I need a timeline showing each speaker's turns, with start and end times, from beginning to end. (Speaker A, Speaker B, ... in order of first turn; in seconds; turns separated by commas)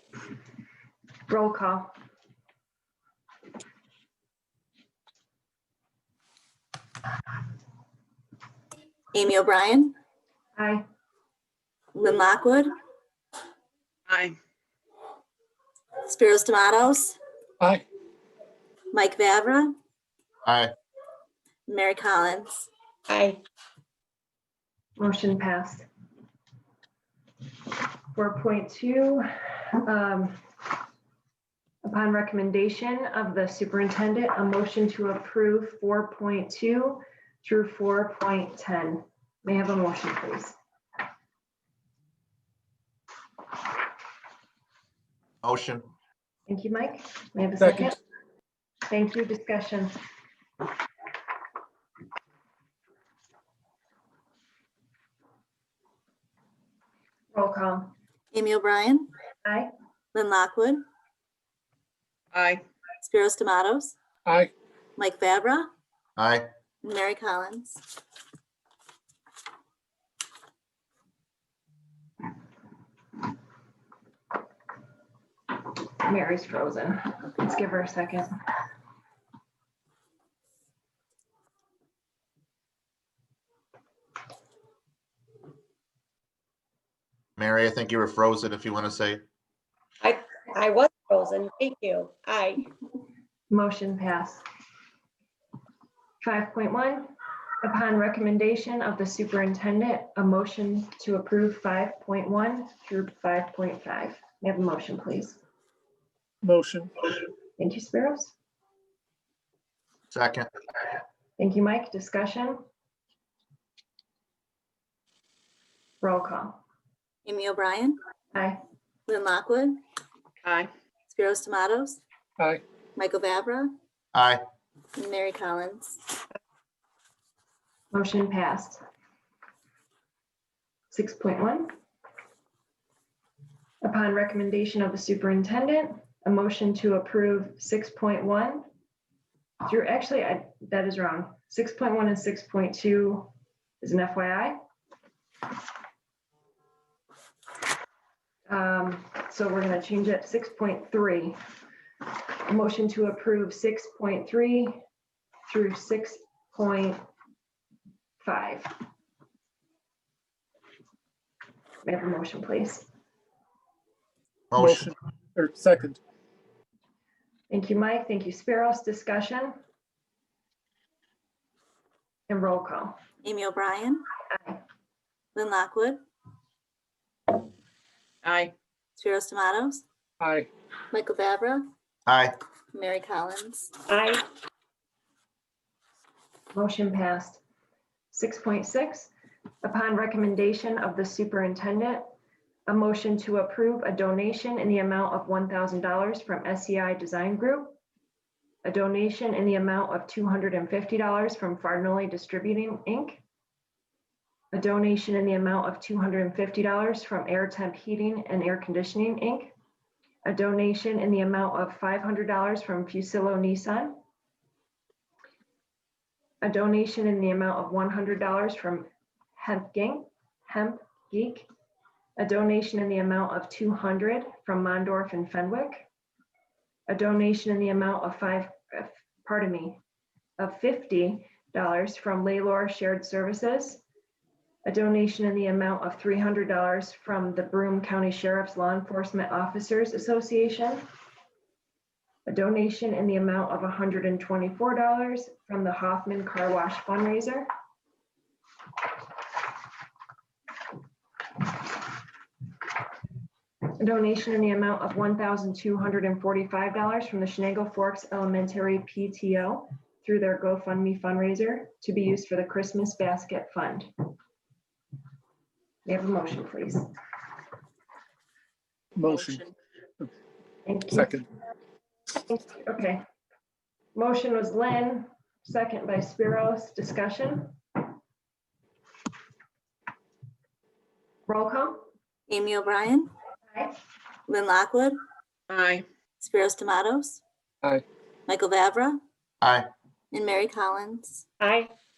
Speaker A: 1.3-1.9, Speaker B: 9.1-9.9, Speaker A: 10.6-10.8, Speaker B: 11.9-12.7, Speaker C: 14.1-14.4, Speaker B: 16.1-17.2, Speaker B: 18.9-19.8, Speaker D: 20.4-20.7, Speaker B: 21.7-22.7, Speaker E: 23.1-23.4, Speaker A: 25.0-25.9, Speaker A: 28.1-30.4, Speaker A: 31.8-40.6, Speaker D: 45.4-45.9, Speaker A: 46.5-48.0, Speaker F: 47.6-47.9, Speaker A: 48.9-49.9, Speaker A: 57.3-57.9, Speaker B: 58.3-59.1, Speaker A: 59.5-59.7, Speaker B: 60.1-60.8, Speaker C: 62.3-62.6, Speaker B: 63.0-64.0, Speaker F: 64.2-64.5, Speaker B: 65.0-65.7, Speaker D: 66.2-66.5, Speaker B: 66.8-67.8, Speaker A: 76.0-78.3, Speaker D: 87.4-89.2, Speaker E: 90.0-92.7, Speaker A: 93.5-94.4, Speaker A: 96.2-97.1, Speaker A: 97.6-105.4, Speaker F: 106.4-106.9, Speaker A: 107.6-108.3, Speaker D: 110.1-110.5, Speaker A: 111.4-112.6, Speaker A: 116.0-116.6, Speaker B: 117.2-118.0, Speaker A: 118.3-118.6, Speaker B: 119.1-119.8, Speaker C: 120.4-120.7, Speaker B: 121.1-122.0, Speaker B: 123.0-123.7, Speaker D: 124.1-124.4, Speaker B: 125.0-126.0, Speaker A: 127.9-128.8, Speaker A: 130.9-131.8, Speaker A: 133.8-138.7, Speaker A: 139.6-144.6, Speaker A: 148.5-151.4, Speaker A: 152.5-154.8, Speaker A: 155.5-157.0, Speaker A: 158.2-158.8, Speaker A: 161.8-162.9, Speaker D: 164.5-164.9, Speaker F: 164.6-166.0, Speaker A: 167.5-169.6, Speaker A: 172.3-173.0, Speaker B: 173.2-174.1, Speaker B: 175.3-176.0, Speaker C: 178.2-178.5, Speaker B: 179.0-179.8, Speaker F: 180.2-180.5, Speaker B: 180.9-181.7, Speaker D: 182.1-182.3, Speaker B: 182.7-183.7, Speaker E: 183.9-184.2, Speaker A: 186.5-187.4, Speaker A: 188.1-189.1, Speaker A: 189.6-192.1, Speaker A: 192.7-197.8, Speaker A: 198.6-203.2, Speaker A: 204.5-209.5, Speaker A: 210.2-214.0, Speaker A: 216.4-221.5, Speaker A: 222.2-225.9, Speaker A: 226.9-229.8, Speaker A: 230.4-233.8, Speaker A: 234.7-240.8, Speaker A: 242.3-247.5, Speaker A: 253.8-263.9, Speaker A: 265.9-266.9, Speaker F: 269.0-269.5, Speaker C: 269.0-269.5, Speaker A: 270.7-271.2, Speaker F: 270.9-271.2, Speaker A: 272.2-273.0, Speaker A: 273.9-277.6, Speaker A: 281.3-281.9, Speaker B: 282.3-283.1, Speaker B: 284.3-285.0, Speaker C: 285.5-285.8, Speaker B: 286.2-287.2, Speaker B: 288.3-289.0, Speaker D: 289.4-289.7, Speaker B: 290.1-291.2, Speaker E: 291.4-291.7